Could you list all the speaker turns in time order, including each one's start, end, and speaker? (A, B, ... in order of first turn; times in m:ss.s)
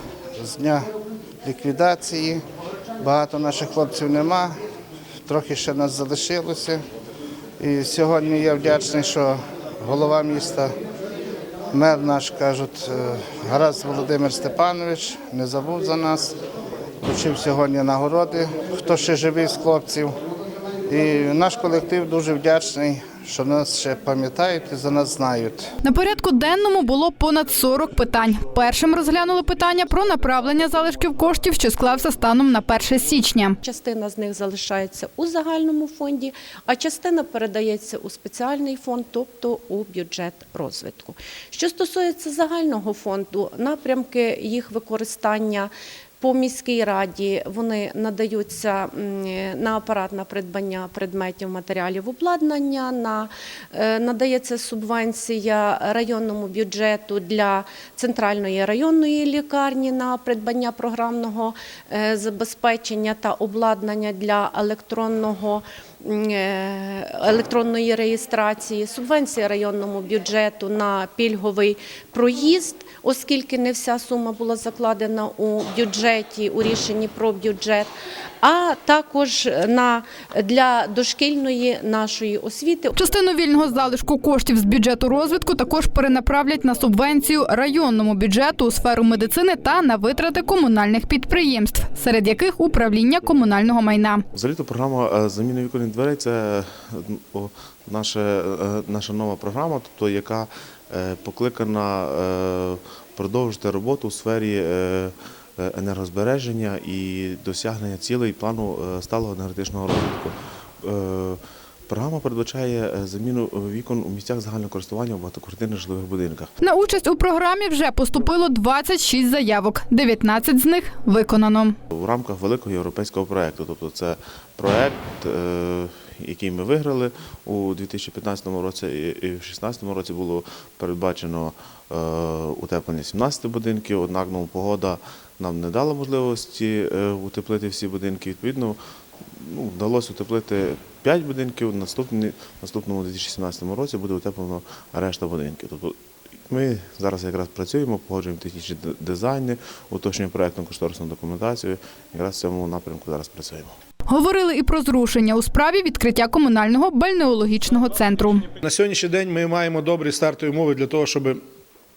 0:00.4-0:00.8 A
0:01.4-0:02.4 A
0:03.0-0:04.6 A
0:05.3-0:06.8 A
0:07.6-0:10.7 A
0:11.7-0:16.3 A
0:17.0-0:20.1 A
0:20.9-0:25.7 A
0:25.8-0:33.6 B
0:33.6-1:23.0 C
1:23.0-1:34.2 B
1:34.3-1:56.5 D
1:56.6-2:01.8 B
2:01.9-2:18.8 D
2:19.3-2:26.0 D
2:26.5-2:33.8 D
2:34.1-2:38.5 B
2:38.6-2:41.4 E